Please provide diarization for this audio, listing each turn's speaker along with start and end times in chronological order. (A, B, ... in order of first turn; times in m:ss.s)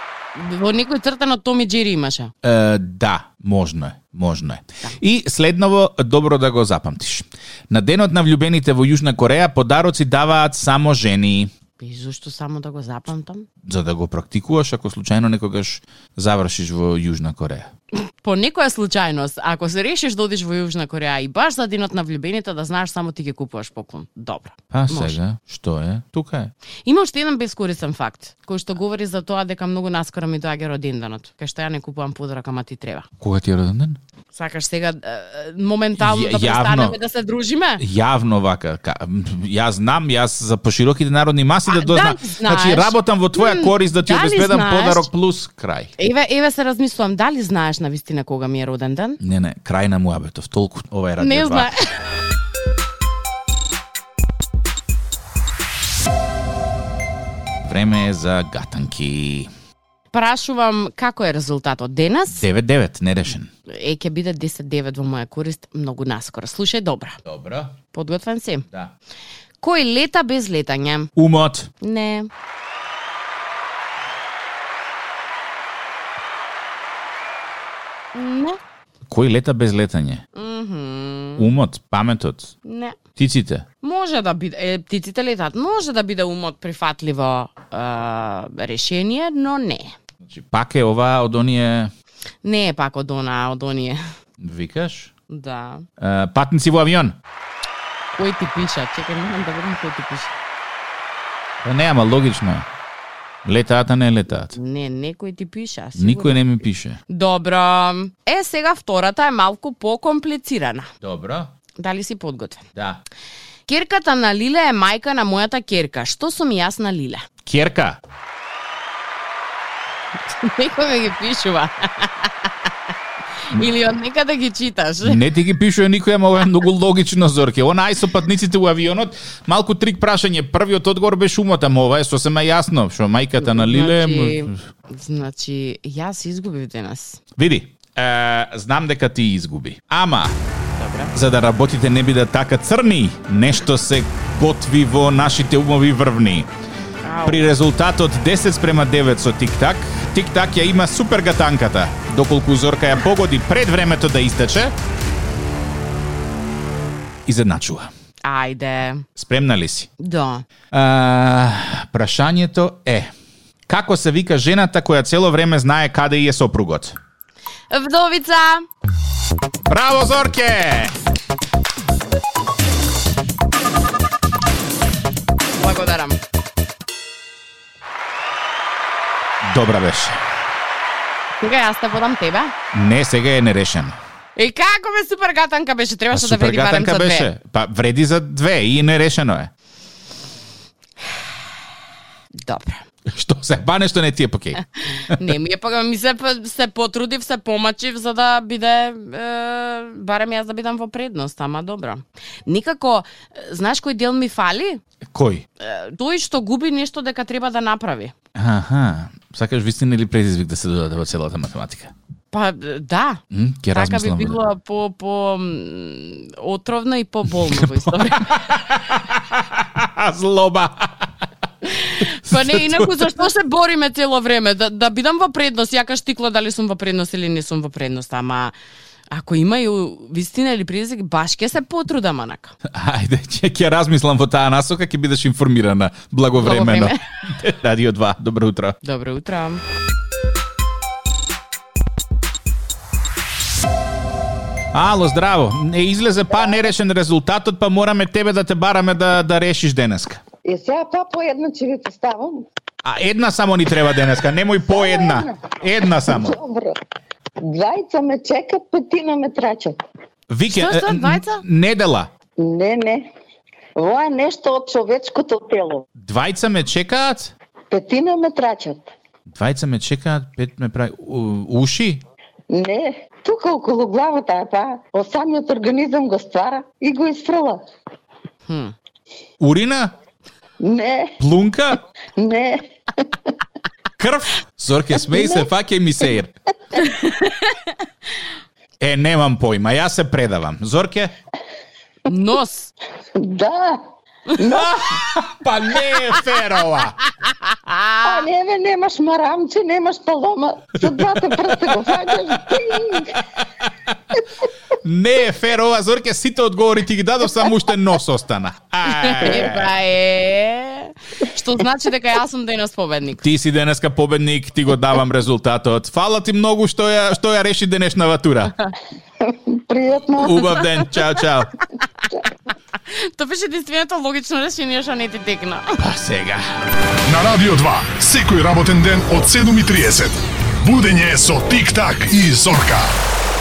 0:00.4-0:02.3 A
0:02.4-0:11.5 B
0:11.8-0:13.5 A
0:13.6-0:17.7 B
0:18.2-0:25.2 A
0:24.7-0:26.5 B
0:26.9-0:33.1 A
0:33.2-0:34.0 B
0:34.3-0:37.8 A
0:36.0-0:37.0 B
0:37.8-0:45.9 B
0:41.7-0:45.1 A
0:46.0-0:49.2 A
0:49.2-0:51.7 B
0:51.2-0:51.9 A
0:57.6-0:59.5 B
1:00.1-1:02.4 A
1:02.3-1:03.5 B
1:03.7-1:07.2 A
1:07.2-1:07.8 B
1:07.9-1:08.7 A
1:09.6-1:11.1 A
1:11.2-1:11.7 B
1:11.8-1:12.3 A
1:18.1-1:18.6 A
1:19.1-1:20.2 B
1:20.4-1:21.5 A
1:21.4-1:22.5 B
1:22.6-1:23.0 A
1:23.2-1:23.6 B
1:23.8-1:30.0 A
1:30.3-1:31.9 B
1:32.4-1:34.0 A
1:34.4-1:35.1 B
1:35.3-1:35.9 A
1:36.0-1:37.2 B
1:38.1-1:40.4 A
1:41.6-1:42.7 B
1:43.4-1:44.6 B
1:44.5-1:46.4 A
1:46.0-1:47.0 B
1:47.1-1:50.9 A
1:51.0-1:51.5 B
1:51.8-1:52.6 A
1:52.8-1:53.0 B
1:53.7-1:57.3 A
1:57.5-1:58.0 B
2:00.3-2:02.7 A
2:03.4-2:05.2 A
2:05.0-2:14.6 B
2:13.4-2:17.2 A
2:17.4-2:20.4 B
2:20.8-2:21.1 A
2:21.1-2:26.5 B
2:27.0-2:27.5 A
2:27.2-2:34.7 B
2:37.3-2:37.9 B
2:38.2-2:39.1 A
2:39.2-2:39.9 B
2:40.0-2:40.4 A
2:40.7-2:43.1 B
2:43.7-2:47.0 B
2:47.7-2:48.7 A
2:49.6-2:51.0 B
2:55.6-2:56.2 A
2:59.4-3:00.2 B
3:01.4-3:02.5 A
3:02.7-3:04.0 B
3:04.4-3:07.3 A
3:06.1-3:09.5 B
3:12.4-3:12.8 A
3:13.1-3:15.3 B
3:14.9-3:24.8 A
3:25.1-3:25.4 B
3:25.6-3:28.1 A
3:28.4-3:31.9 B
3:32.3-3:33.2 A
3:33.3-3:34.4 B
3:33.7-3:38.5 A
3:37.4-3:41.2 B
3:41.6-3:48.5 A
3:42.0-3:43.2 B
3:49.1-3:52.6 A
3:52.7-3:58.8 B
3:56.4-3:57.0 A
3:58.8-3:59.6 A
4:04.7-4:10.2 B
4:10.4-4:12.4 C
4:12.8-4:16.4 B
4:14.7-4:15.5 C
4:16.1-4:16.8 C
4:17.4-4:19.8 C
4:20.3-4:22.1 B
4:20.5-4:21.4 A
4:22.4-4:23.1 C
4:23.8-4:25.9 C
4:26.0-4:27.3 B
4:27.7-4:28.9 C
4:29.3-4:32.0 B
4:32.5-4:37.6 C
4:38.5-4:38.7 A
4:39.4-4:39.9 B
4:40.6-4:41.2 C
4:41.2-4:41.8 B
4:42.2-4:43.1 C
4:44.0-4:46.3 B
4:45.1-4:45.5 C
4:46.8-4:47.7 A
4:48.8-4:51.1 B
4:52.1-4:52.7 A
4:53.2-4:55.0 C
4:54.6-4:57.0 B
4:57.2-4:58.2 A
4:58.0-5:03.2 C
5:00.9-5:04.0 B
5:04.8-5:09.7 B
5:08.9-5:13.2 A
5:13.2-5:18.5 B
5:19.2-5:20.6 C
5:20.2-5:21.5 B
5:22.9-5:25.8 A
5:25.8-5:26.5 B
5:27.1-5:32.9 D